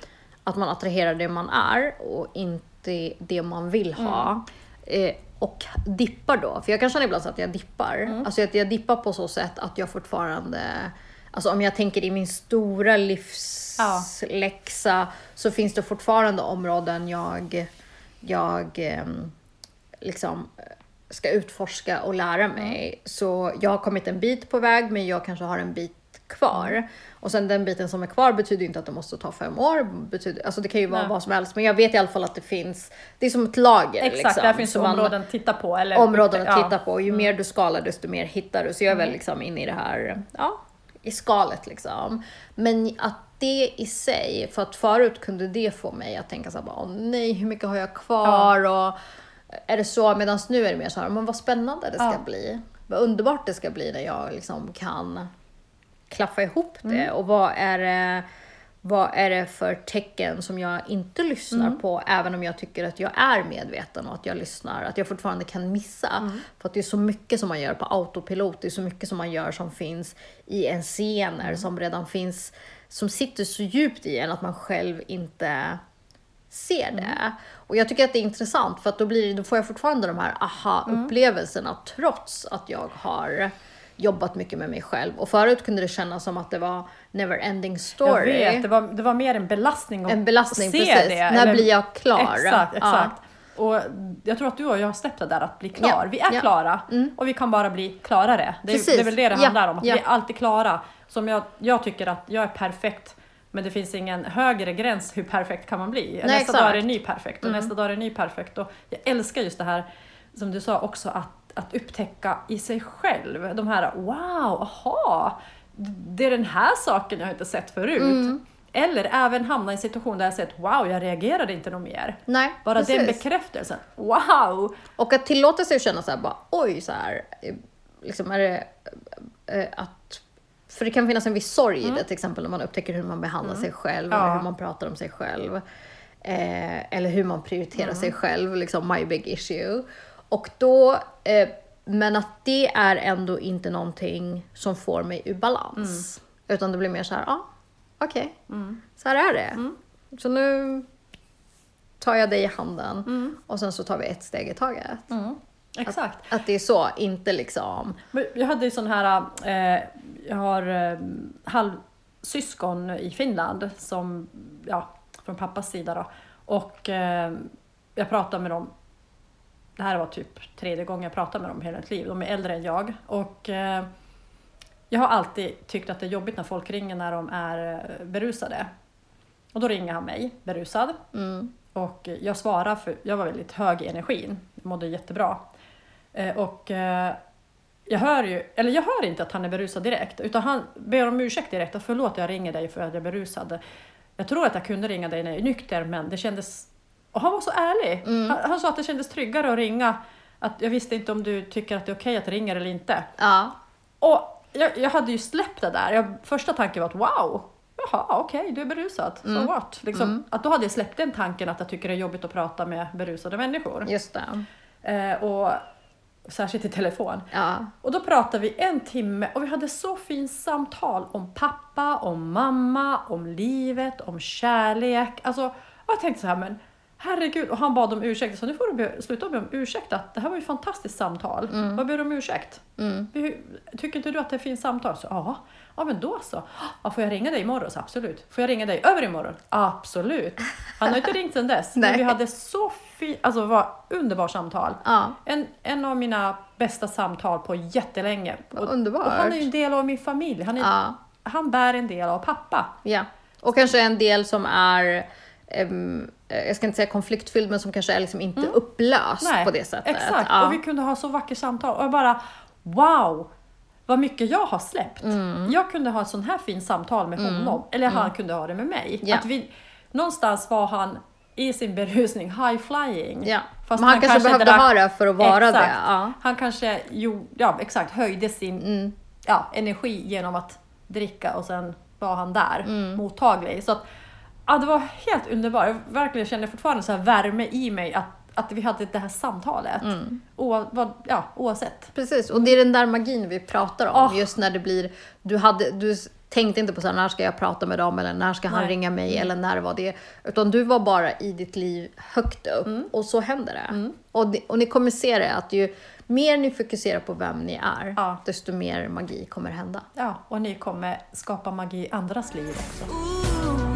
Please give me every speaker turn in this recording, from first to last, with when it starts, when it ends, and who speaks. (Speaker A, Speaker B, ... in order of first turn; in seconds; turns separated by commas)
Speaker A: 0.5-17.7, Speaker B: 4.0-4.3, Speaker B: 13.8-14.1, Speaker A: 18.2-19.3, Speaker A: 20.0-35.1, Speaker B: 34.0-37.2, Speaker A: 35.9-49.0, Speaker A: 49.5-55.3, Speaker A: 56.1-58.2, Speaker A: 58.8-75.8, Speaker B: 61.5-61.8, Speaker A: 76.5-88.7, Speaker B: 80.9-81.1, Speaker B: 88.0-124.8, Speaker A: 90.1-93.1, Speaker A: 95.8-97.1, Speaker A: 98.7-100.0, Speaker A: 106.2-107.7, Speaker A: 118.0-118.4, Speaker A: 122.3-123.2, Speaker A: 125.0-135.6, Speaker B: 133.4-134.4, Speaker A: 136.2-147.4, Speaker B: 137.8-138.1, Speaker B: 145.8-146.0, Speaker A: 148.0-148.4, Speaker B: 148.5-148.8, Speaker A: 148.9-150.9, Speaker A: 152.0-155.1, Speaker B: 153.1-153.3, Speaker B: 155.1-156.3, Speaker A: 156.3-158.0, Speaker B: 158.1-168.7, Speaker B: 169.8-173.9, Speaker B: 174.9-178.7, Speaker B: 179.5-181.0, Speaker A: 181.1-181.5, Speaker B: 181.7-185.4, Speaker B: 186.1-187.2, Speaker B: 187.9-193.6, Speaker B: 194.2-203.1, Speaker A: 198.0-198.4, Speaker A: 203.2-203.5, Speaker B: 204.0-213.9, Speaker A: 209.2-210.2, Speaker A: 213.8-214.4, Speaker B: 214.8-215.6, Speaker B: 216.2-217.3, Speaker A: 217.3-217.7, Speaker B: 217.8-252.7, Speaker A: 231.5-231.8, Speaker A: 232.8-233.1, Speaker A: 241.8-242.1, Speaker A: 244.8-245.2, Speaker A: 248.6-249.5, Speaker A: 250.6-250.9, Speaker A: 252.8-260.6, Speaker B: 259.2-263.3, Speaker B: 263.9-283.8, Speaker A: 265.0-265.6, Speaker A: 267.2-268.1, Speaker A: 273.2-276.1, Speaker A: 278.6-278.9, Speaker A: 282.6-283.0, Speaker B: 284.5-292.5, Speaker A: 289.8-290.2, Speaker A: 291.9-309.9, Speaker B: 293.9-294.2, Speaker B: 298.5-299.3, Speaker B: 308.0-308.2, Speaker B: 309.9-313.0